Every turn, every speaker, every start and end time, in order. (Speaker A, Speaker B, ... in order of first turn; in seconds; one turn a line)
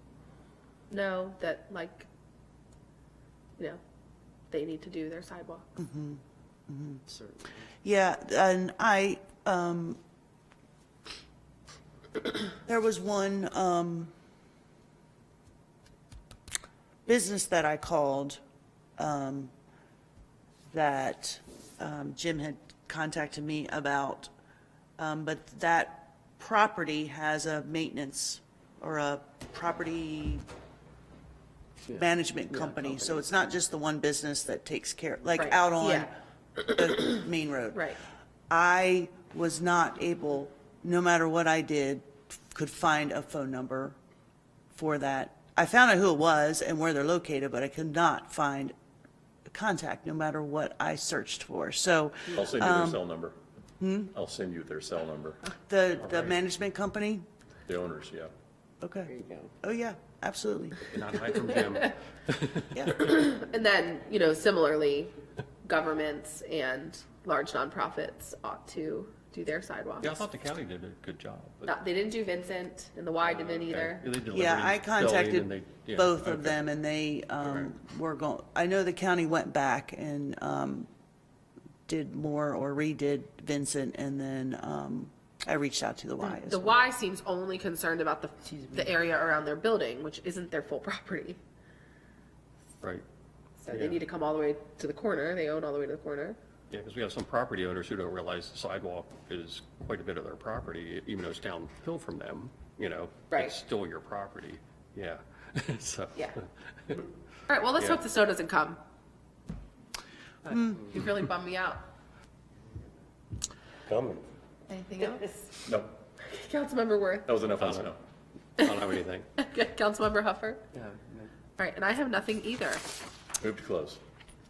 Speaker A: 0.9-2.1
Speaker A: 4.5-5.7
Speaker B: 5.8-7.0
Speaker C: 7.1-7.7
Speaker B: 7.8-10.0
Speaker B: 12.6-14.1
Speaker B: 17.1-18.4
Speaker B: 19.0-19.5
Speaker B: 20.7-24.3
Speaker B: 25.0-30.4
Speaker C: 31.9-33.2
Speaker B: 31.9-36.1
Speaker A: 35.3-36.1
Speaker B: 36.6-37.9
Speaker A: 37.7-38.0
Speaker B: 38.5-44.0
Speaker B: 44.7-48.7
Speaker B: 49.5-53.0
Speaker D: 52.3-53.4
Speaker B: 53.8-54.1
Speaker D: 54.1-55.5
Speaker B: 55.6-57.2
Speaker E: 56.0-56.4
Speaker D: 57.7-58.3
Speaker B: 58.8-59.1
Speaker C: 59.0-59.5
Speaker B: 59.6-60.8
Speaker E: 60.8-62.9
Speaker A: 62.9-65.1
Speaker A: 65.6-70.1
Speaker E: 70.0-71.7
Speaker A: 71.6-74.1
Speaker E: 73.3-76.6
Speaker B: 74.3-80.9
Speaker E: 77.4-77.7
Speaker B: 81.9-86.8
Speaker A: 86.2-91.4
Speaker A: 93.6-96.4
Speaker E: 93.7-94.0
Speaker E: 96.7-107.0
Speaker A: 103.3-103.6
Speaker A: 107.5-108.8
Speaker E: 107.8-108.0
Speaker B: 110.5-110.9
Speaker A: 110.9-111.8
Speaker D: 113.9-114.2
Speaker A: 114.7-115.5
Speaker D: 115.7-115.9
Speaker A: 116.2-117.3
Speaker D: 117.2-118.0
Speaker E: 117.5-117.9
Speaker E: 118.5-119.3
Speaker A: 119.4-120.6
Speaker C: 120.7-121.3
Speaker A: 121.6-122.8
Speaker D: 123.4-124.0